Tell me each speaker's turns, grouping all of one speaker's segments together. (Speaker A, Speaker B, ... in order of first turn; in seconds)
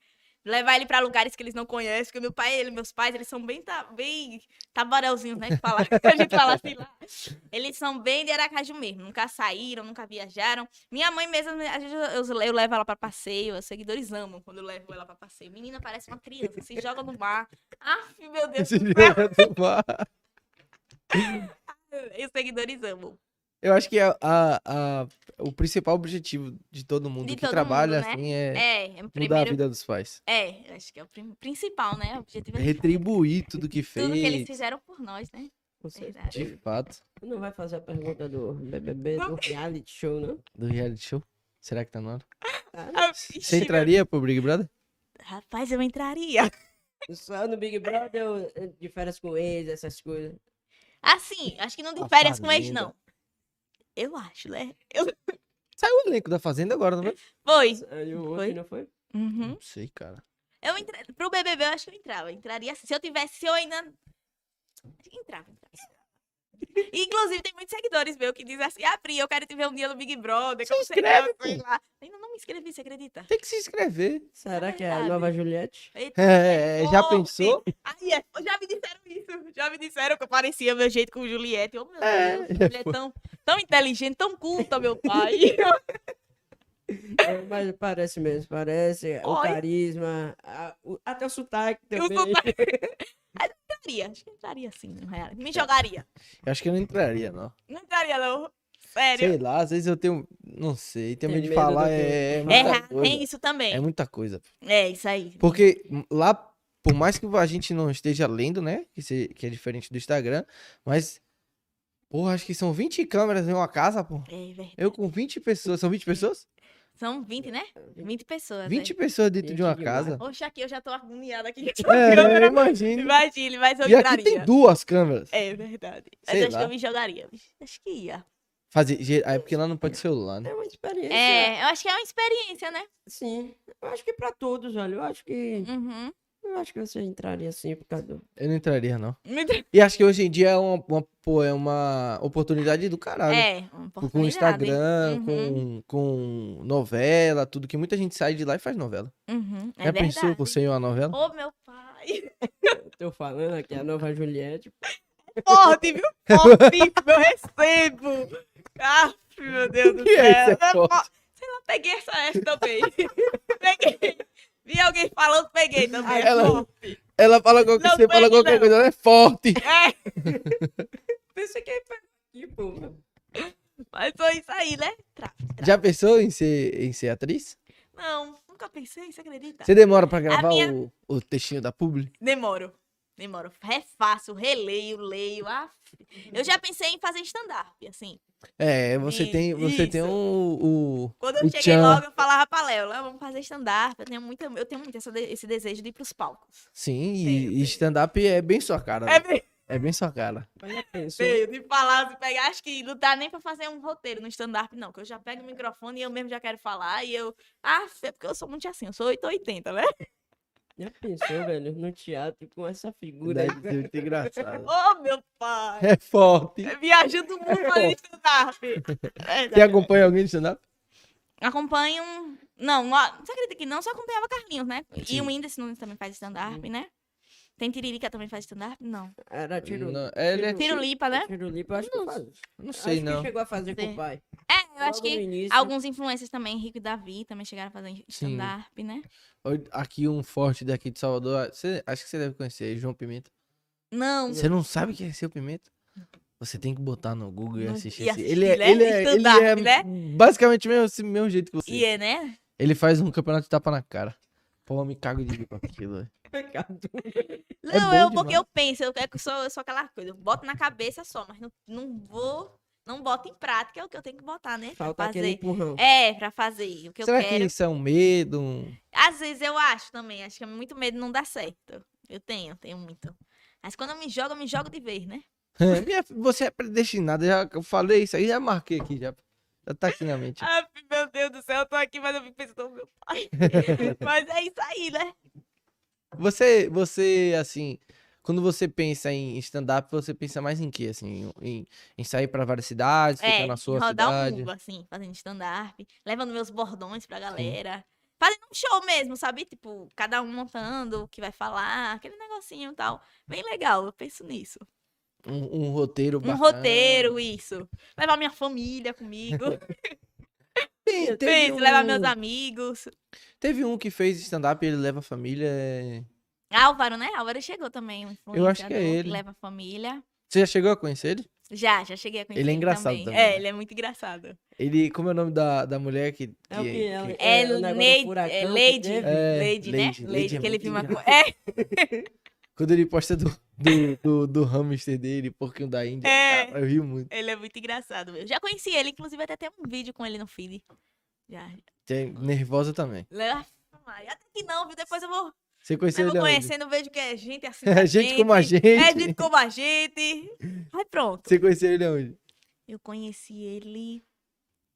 Speaker A: 0.5-19.5, 21.1-23.2, 27.2-29.6, 30.3-33.1, 33.9-36.5, 39.2-39.6, 42.6-43.9, 45.2-46.5, 51.0-53.0, 54.0-55.3, 57.3-58.6, 59.1-59.6, 60.6-64.0, 65.0-65.9, 66.8-73.3, 74.5-75.3, 76.0-85.8, 89.2-89.6, 92.0-92.7, 93.3-96.1, 97.7-99.3, 102.5-103.8, 104.6-105.6, 114.3-114.9, 117.0-118.9, 120.2-124.5, 125.3-128.3, 131.1-132.9, 135.6-136.1, 139.3-139.7, 143.3-145.6, 149.3-150.6, 151.1-152.8, 155.3-166.7, 167.8-168.8, 169.6-170.2, 173.4-175.8, 177.9-179.7, 180.3-180.7, 182.2-188.2, 189.0-190.2, 191.2-196.7, 197.2-197.8, 199.1-199.5, 201.2-210.0, 214.7-215.9, 216.6-219.9, 221.4-226.9, 227.6-229.2, 230.6-231.3, 233.8-239.1, 243.9-244.5, 247.6-249.9, 251.7-252.4, 257.6-267.5, 268.9-275.8, 280.4-285.1, 293.2-304.7, 306.2-309.7, 311.0-312.9, 316.5-320.1, 321.5-324.4, 327.2-332.0, 336.0-336.6, 337.1-340.6, 341.3-341.6, 343.1-345.4, 345.9-351.4, 352.7-354.0
Speaker B: 5.7-6.6, 18.6-20.1, 21.2-21.5, 23.6-30.2, 32.5-34.5, 36.3-37.0, 40.6-42.2, 43.3-44.7, 52.0-52.9, 55.8-57.2, 59.5-60.2, 70.7-71.6, 73.3-74.3, 76.2-77.6, 82.0-83.0, 96.4-97.5, 99.2-104.4, 105.4-111.2, 112.1-116.5, 118.7-120.2, 121.9-123.2, 123.8-125.3, 126.2-126.7, 128.7-130.5, 138.4-139.2, 139.7-143.5, 144.0-149.1, 149.8-151.2, 156.3-156.9, 159.8-161.0, 166.1-166.6, 167.2-169.6, 170.2-170.9, 175.6-177.6, 179.7-182.1, 188.6-192.0, 196.8-200.5, 213.2-214.7, 215.8-216.7, 217.5-217.9, 219.5-220.6, 225.0-225.3, 229.6-230.8, 231.7-233.3, 238.1-238.5, 239.4-243.3, 244.3-245.7, 246.4-251.9, 252.6-254.2, 254.7-256.1, 257.7-258.4, 267.0-268.8, 275.6-280.5, 283.4-284.0, 286.2-294.5, 305.2-307.2, 310.9-312.1, 313.4-316.1, 318.3-319.2, 320.3-321.3, 322.4-323.4, 324.6-327.2, 329.0-331.0, 332.6-337.1, 341.9-343.1, 345.6-346.5, 347.6-349.2, 351.3-352.2
Speaker C: 35.8-36.5, 37.2-40.4, 42.7-43.1, 47.1-50.4, 57.8-58.9, 74.4-75.9, 85.1-85.3, 87.0-92.9, 101.3-102.8, 117.8-118.1, 119.4-120.2, 121.8-122.5, 130.4-131.5, 133.1-135.7, 136.4-138.2, 152.8-154.8, 155.5-155.8, 163.2-163.5, 166.0-167.0, 170.2-170.6, 171.3-173.0, 200.6-201.4, 210.8-214.5, 229.3-234.2, 234.8-235.7, 256.3-257.4, 264.8-265.8, 326.5-329.2, 330.1-331.0, 331.6-331.9